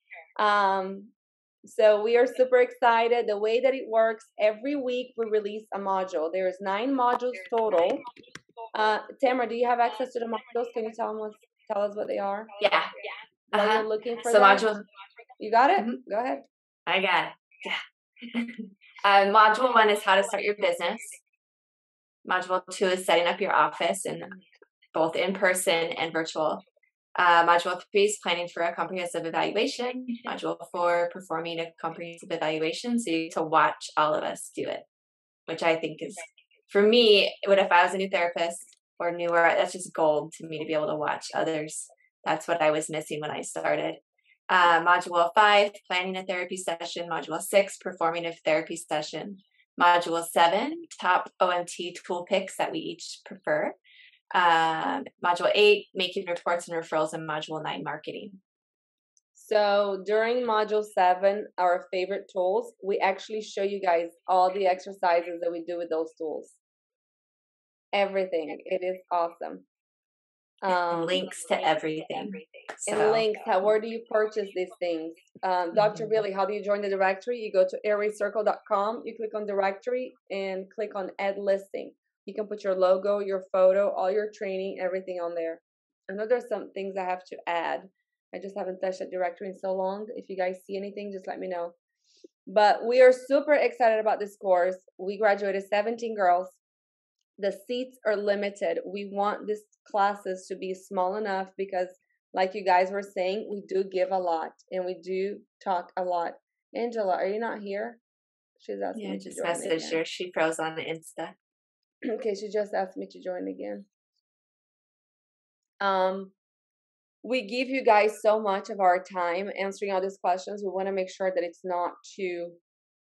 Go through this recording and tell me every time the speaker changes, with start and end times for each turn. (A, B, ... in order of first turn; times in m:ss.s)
0:00.4-0:01.1 A
0:01.6-0:08.0 A
0:08.7-0:12.5 A
0:12.6-0:12.9 B
0:13.5-0:14.8 B
0:13.5-0:14.7 A
0:15.4-0:16.4 A
0:16.9-0:21.2 B
0:22.2-0:24.4 B
0:24.9-0:26.6 B
0:27.2-0:34.8 B
0:35.5-0:53.8 B
0:54.3-0:58.4 B
0:59.3-1:06.6 A
1:07.9-1:09.6 A
1:10.6-1:11.3 A
1:10.9-1:13.3 B
1:12.9-1:31.7 A
1:32.5-1:36.6 A
1:37.4-1:48.0 A
1:48.6-1:50.0 A
1:48.9-1:51.3 B
1:52.0-1:53.8 A
1:55.8-1:56.3 A
1:57.2-2:02.6 A